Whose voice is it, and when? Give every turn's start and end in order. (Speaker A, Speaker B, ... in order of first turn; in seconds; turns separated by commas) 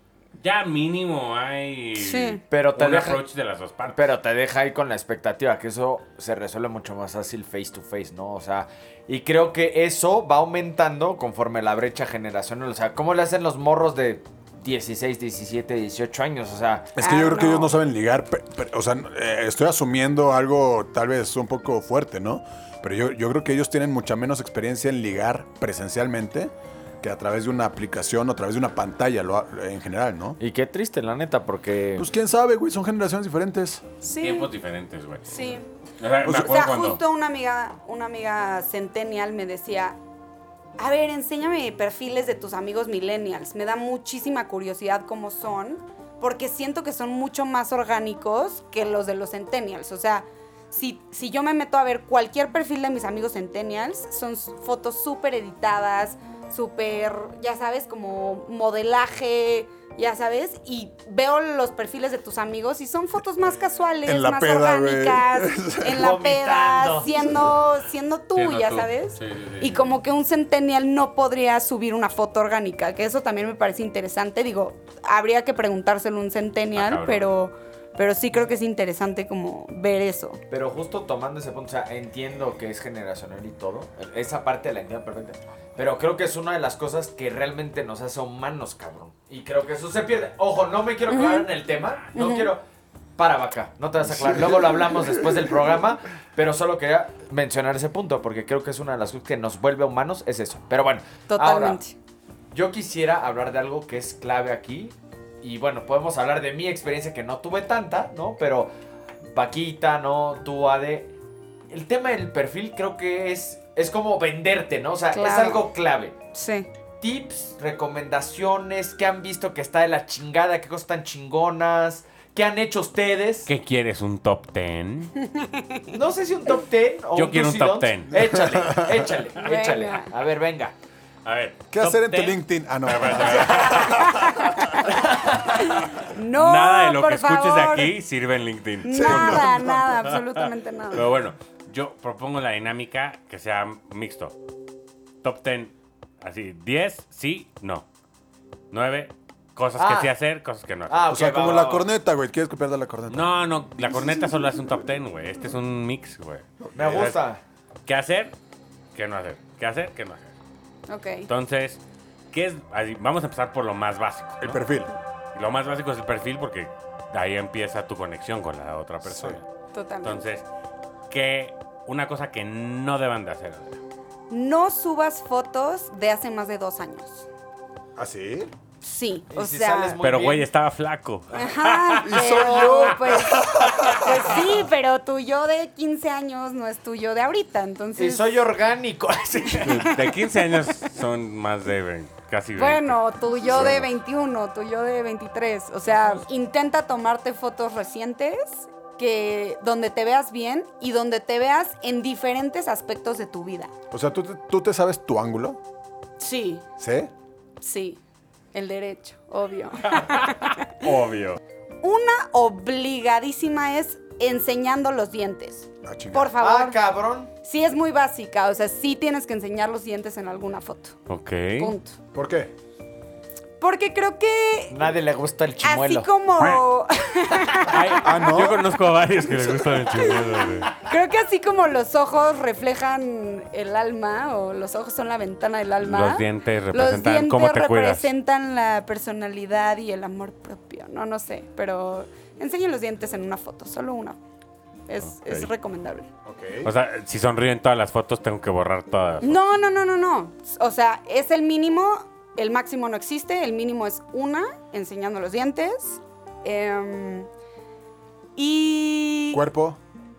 Speaker A: 0.4-4.1, Speaker B: 1.9-2.4, Speaker C: 2.5-3.2, Speaker C: 3.9-16.9, Speaker D: 16.9-30.4, Speaker B: 17.0-17.7, Speaker C: 30.4-32.1, Speaker D: 31.9-33.8, Speaker B: 34.0-34.5, Speaker A: 34.2-35.3, Speaker B: 35.3-35.6, Speaker A: 36.0-37.0, Speaker D: 36.2-36.5, Speaker B: 36.2-40.0, Speaker B: 40.8-80.4, Speaker D: 64.0-66.1, Speaker C: 66.0-67.3, Speaker A: 68.3-70.0, Speaker A: 76.7-77.3, Speaker C: 80.5-92.6, Speaker B: 91.1-91.5, Speaker B: 92.1-92.5, Speaker C: 93.2-101.8, Speaker D: 94.0-95.5, Speaker B: 101.3-101.9, Speaker C: 102.5-108.7, Speaker C: 109.2-111.1, Speaker C: 111.7-116.2, Speaker B: 115.1-115.6, Speaker B: 116.3-116.7, Speaker C: 117.0-123.5, Speaker A: 123.5-125.1, Speaker B: 125.2-126.0, Speaker C: 125.9-130.7, Speaker A: 127.1-128.3, Speaker D: 128.1-129.1, Speaker B: 129.4-130.1, Speaker A: 131.2-135.0, Speaker D: 131.7-134.9, Speaker B: 133.9-137.9, Speaker A: 136.3-139.5, Speaker B: 138.8-141.1, Speaker D: 138.9-139.9, Speaker A: 140.9-144.3, Speaker A: 145.2-147.9, Speaker A: 148.7-151.1, Speaker C: 149.8-150.1, Speaker C: 150.9-151.9, Speaker D: 151.1-153.3, Speaker A: 153.1-157.2, Speaker D: 156.6-157.1, Speaker C: 156.8-157.4, Speaker A: 157.8-158.3, Speaker A: 158.9-160.3, Speaker B: 160.9-161.3, Speaker A: 161.3-161.8, Speaker A: 162.3-164.6, Speaker D: 164.4-164.9, Speaker A: 165.3-169.4, Speaker D: 169.0-169.4, Speaker B: 169.7-170.2, Speaker A: 170.0-170.4, Speaker A: 171.1-173.8, Speaker B: 174.3-177.3, Speaker D: 177.9-178.5, Speaker B: 178.8-180.0, Speaker C: 179.3-180.5, Speaker A: 180.0-184.0, Speaker B: 181.3-188.4, Speaker D: 182.0-184.3, Speaker C: 188.0-189.9, Speaker B: 189.5-190.7, Speaker A: 189.6-193.8, Speaker B: 192.6-203.7, Speaker D: 193.4-193.8, Speaker D: 203.9-205.6, Speaker B: 206.2-206.6, Speaker D: 206.8-207.1, Speaker B: 207.6-208.0, Speaker B: 208.5-210.7, Speaker A: 209.9-211.4, Speaker B: 211.8-216.8, Speaker D: 215.8-216.3, Speaker C: 216.4-217.3, Speaker B: 217.4-220.9, Speaker A: 221.1-221.7, Speaker B: 221.6-222.0, Speaker D: 222.1-222.5, Speaker B: 223.6-224.9, Speaker C: 224.7-226.1, Speaker B: 225.6-228.4, Speaker A: 227.6-230.7, Speaker D: 227.9-228.7, Speaker D: 229.3-229.8, Speaker B: 229.9-244.2, Speaker A: 235.8-238.1, Speaker B: 244.9-246.1, Speaker D: 246.2-246.7, Speaker A: 246.6-249.4, Speaker B: 249.2-257.3, Speaker B: 258.4-259.4, Speaker D: 259.3-259.8